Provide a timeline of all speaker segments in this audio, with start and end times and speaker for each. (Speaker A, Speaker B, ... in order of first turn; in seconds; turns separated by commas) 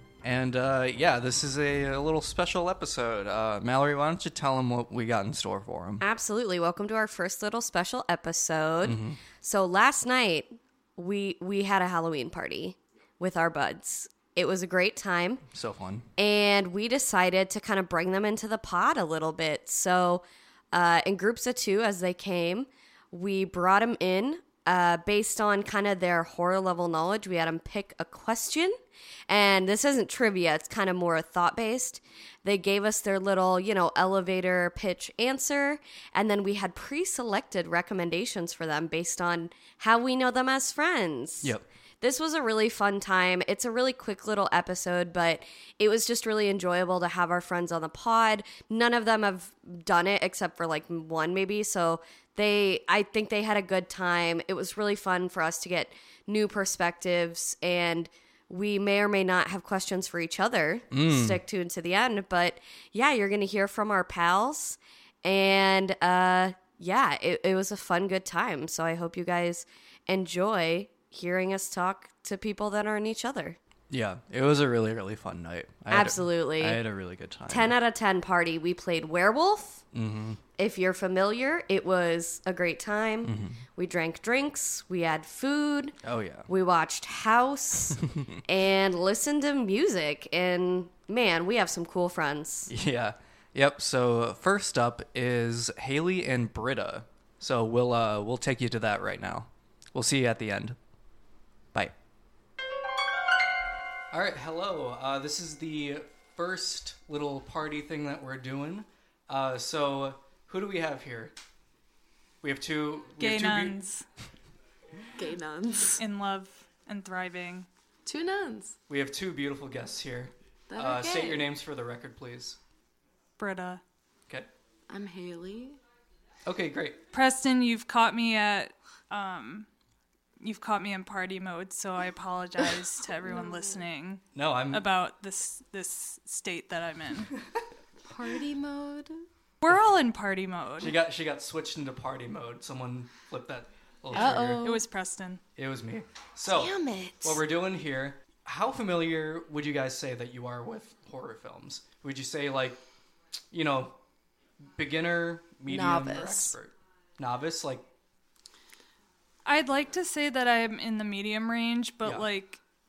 Speaker A: 0.2-6.0, Speaker B: 6.0-15.4, Speaker A: 8.8-9.2, Speaker A: 15.5-16.1, Speaker B: 16.2-28.8, Speaker B: 29.3-73.6, Speaker A: 60.9-61.4, Speaker A: 73.9-77.8, Speaker B: 75.9-76.8, Speaker B: 77.5-79.8, Speaker A: 79.9-80.4, Speaker B: 80.6-86.0, Speaker A: 83.2-83.6, Speaker A: 86.0-86.5, Speaker B: 86.5-92.7, Speaker A: 88.1-88.4, Speaker A: 92.7-100.8, Speaker A: 104.1-111.3, Speaker A: 112.4-113.8, Speaker C: 113.2-114.0, Speaker D: 115.2-116.0, Speaker C: 116.0-117.7, Speaker D: 118.0-118.8, Speaker A: 118.9-122.6, Speaker D: 120.7-121.5, Speaker C: 123.4-123.8, Speaker D: 124.9-125.8, Speaker A: 126.5-127.0, Speaker C: 127.1-129.7, Speaker C: 130.4-137.3, Speaker D: 133.2-133.8, Speaker A: 134.3-134.9, Speaker D: 138.1-139.3, Speaker C: 139.6-141.0, Speaker A: 140.8-144.6, Speaker D: 144.1-144.9, Speaker C: 144.1-145.4, Speaker A: 145.6-152.8, Speaker D: 146.5-147.4, Speaker A: 153.5-154.0, Speaker A: 154.7-157.9, Speaker D: 155.7-156.6, Speaker C: 159.4-162.6